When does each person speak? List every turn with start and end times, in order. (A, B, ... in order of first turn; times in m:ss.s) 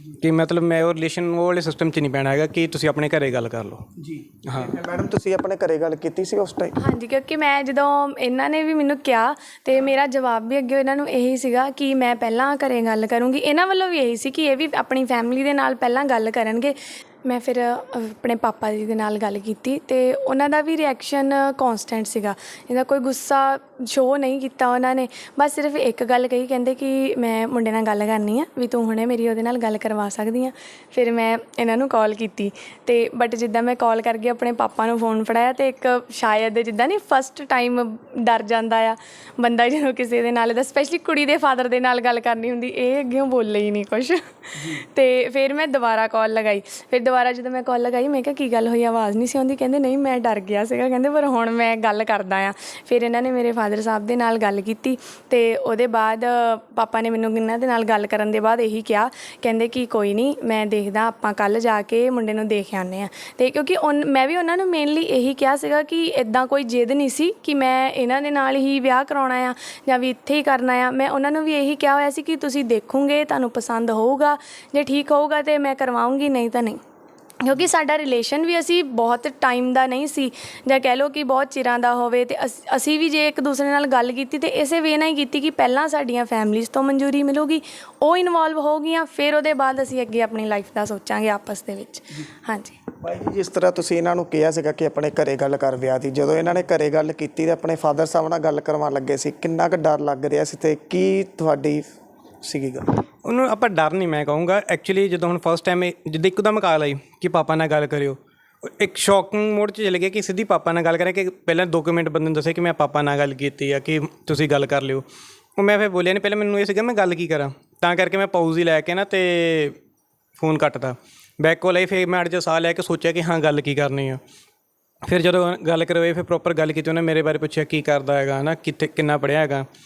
0:00.2-0:03.9 A
0:04.0-0:06.8 B
0:04.4-0:04.8 A
0:06.8-1:16.8 C
1:17.4-1:32.8 C
1:33.0-1:41.9 B
1:42.4-1:42.9 B
1:43.2-1:55.0 A
1:55.6-1:59.8 A
2:00.4-2:04.2 A
2:05.0-2:09.7 A